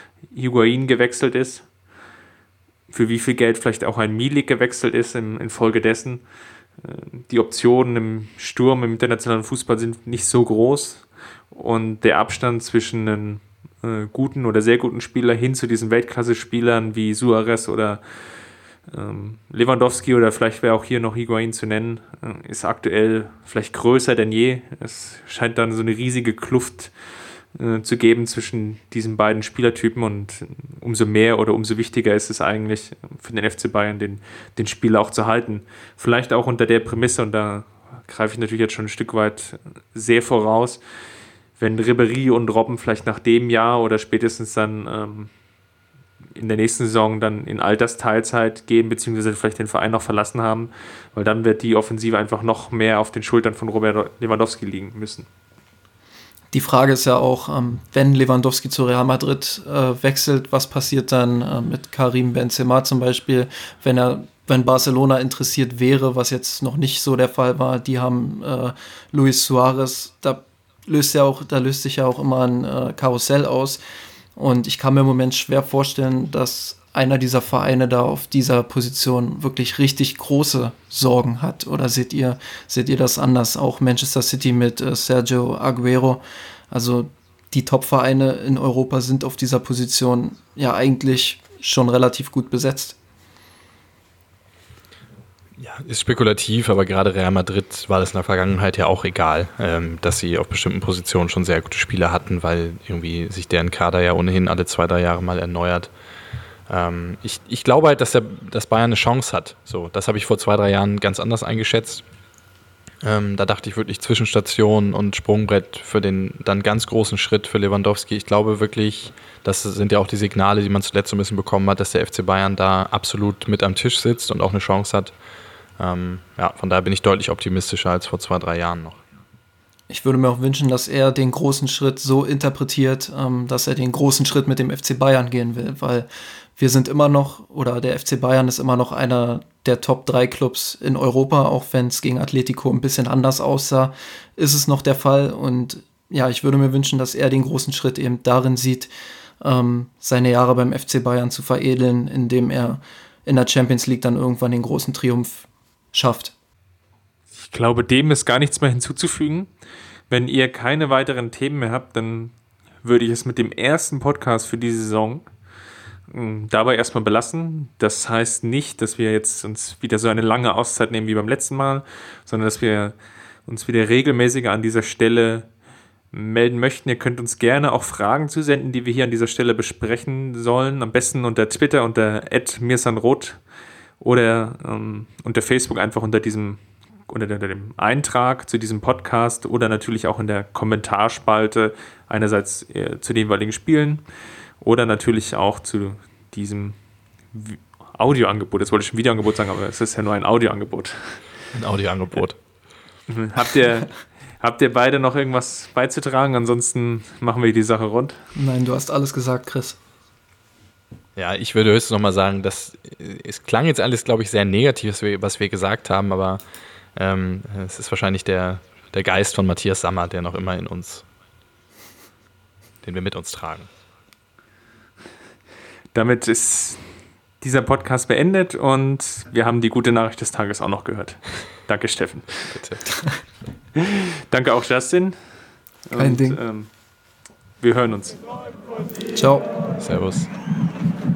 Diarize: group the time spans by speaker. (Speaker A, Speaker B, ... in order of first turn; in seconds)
Speaker A: 0.3-1.6, 2.9-6.2, 6.8-18.0, 18.9-26.9, 27.5-40.8, 41.6-45.3, 46.4-55.3, 157.3-159.5, 160.1-165.3, 166.1-172.9, 173.5-175.5, 176.1-183.4, 184.0-194.0, 194.6-196.8, 197.3-201.2, 203.1-208.2, 225.9-226.8, 227.4-232.6, 233.8-235.1, 235.9-236.7, 237.6-238.2
Speaker B: 56.5-73.8, 74.3-93.0, 129.9-148.9, 149.4-156.3, 208.3-209.8, 235.9-236.4, 239.1-239.4
Speaker C: 95.6-105.9, 106.7-112.0, 113.0-125.1, 125.8-129.0, 201.5-202.4, 211.2-216.4, 216.9-221.0, 222.8-223.7, 232.5-232.8, 239.8-240.3